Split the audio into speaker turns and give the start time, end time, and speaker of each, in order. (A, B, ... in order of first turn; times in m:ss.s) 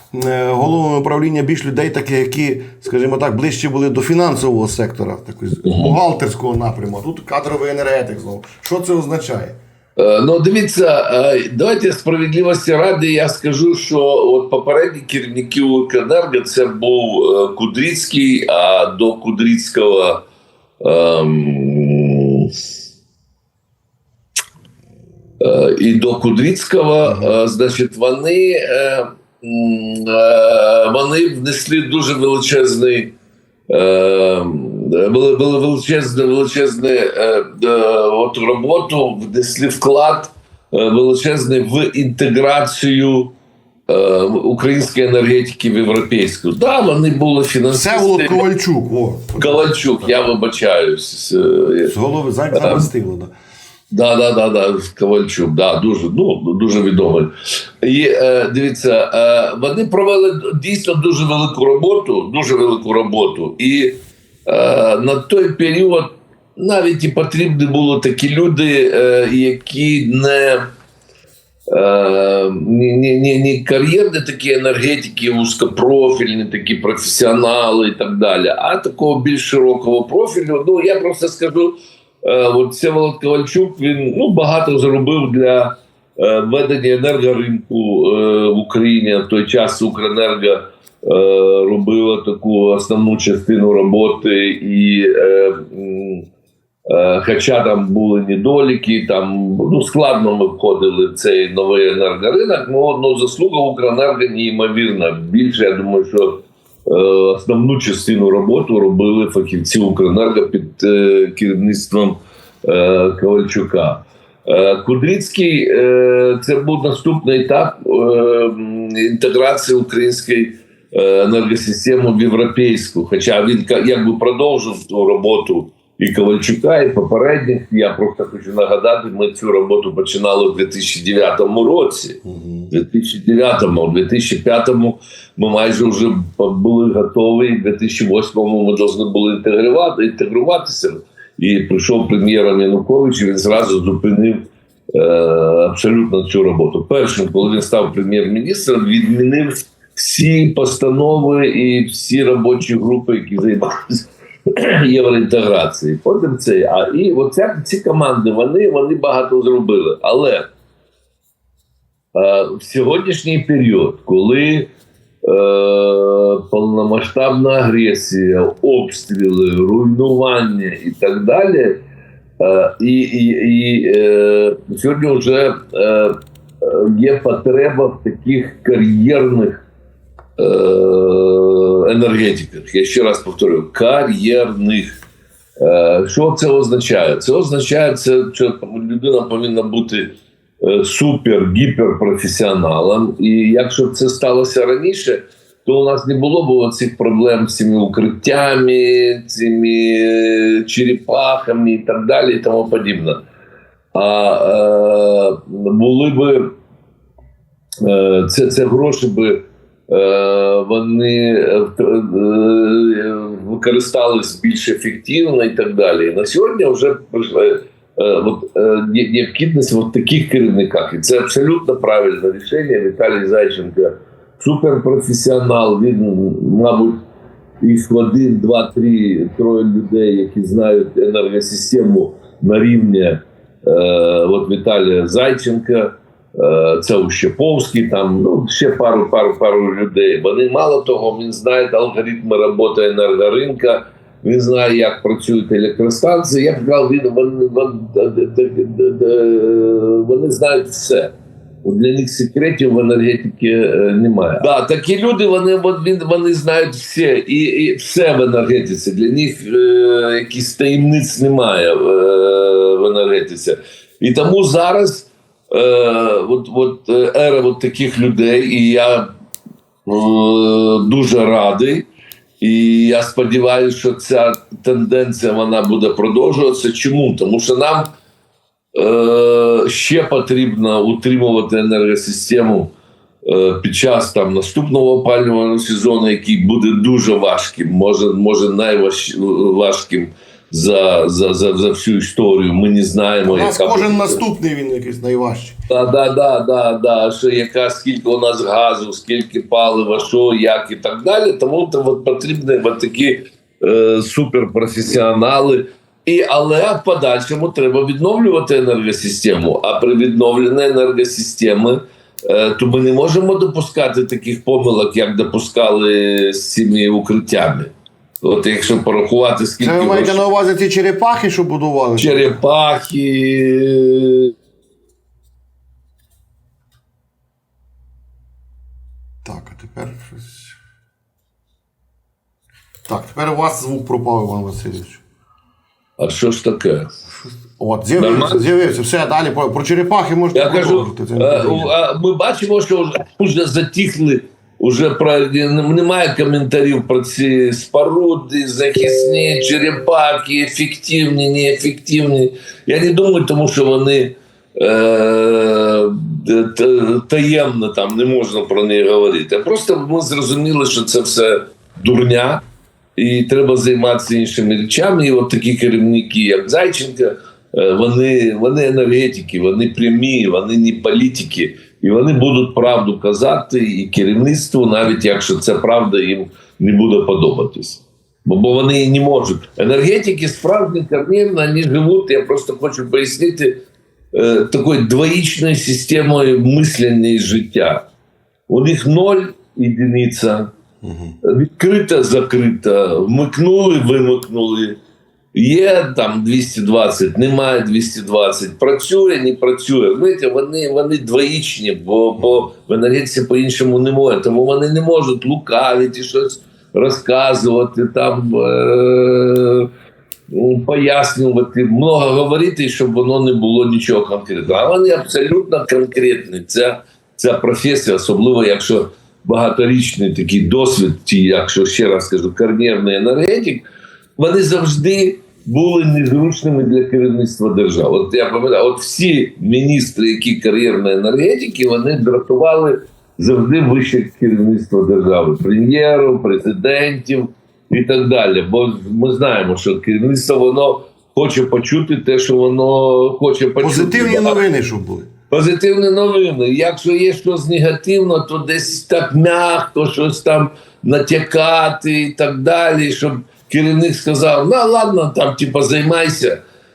0:00.1-0:09.6 A
0:05.6-0:06.0 B
0:10.0-0:20.2 B
0:20.8-0:22.5 B
0:25.4-0:33.1 B
0:33.7-0:43.4 B
0:43.9-0:48.4 B
0:47.7-0:50.1 A
0:49.4-0:51.9 B
0:51.8-0:53.3 A
0:52.5-0:52.9 B
0:53.9-1:10.7 B
1:11.7-1:36.3 B
1:36.9-2:40.5 B
2:12.3-2:12.7 A
2:42.2-2:44.7 B
2:45.2-2:51.8 B
2:52.4-2:59.6 B
3:00.4-3:05.0 B
3:05.6-3:23.2 B
3:23.9-3:26.5 B
3:27.8-3:47.0 B
3:47.6-4:11.1 B
4:11.6-4:29.1 B
4:29.9-4:31.9 B
4:32.4-4:37.9 B
4:38.8-4:42.7 B
4:43.2-4:54.2 B
4:53.3-4:55.6 A
4:55.7-5:20.2 B
5:19.6-5:22.4 A
5:22.0-5:24.3 B
5:29.2-5:30.5 A
5:32.9-5:35.0 A
5:36.0-5:36.9 B
5:37.1-5:41.7 A
5:38.0-5:38.4 B
5:40.3-6:02.4 B
6:03.0-6:23.6 B
6:24.1-6:27.8 B
6:28.5-6:30.5 B
6:30.8-6:31.2 A
6:31.2-6:34.8 B
6:35.3-6:49.7 B
6:50.3-7:03.7 B
7:04.2-7:24.4 B
7:23.6-7:25.1 A
7:25.3-7:36.4 B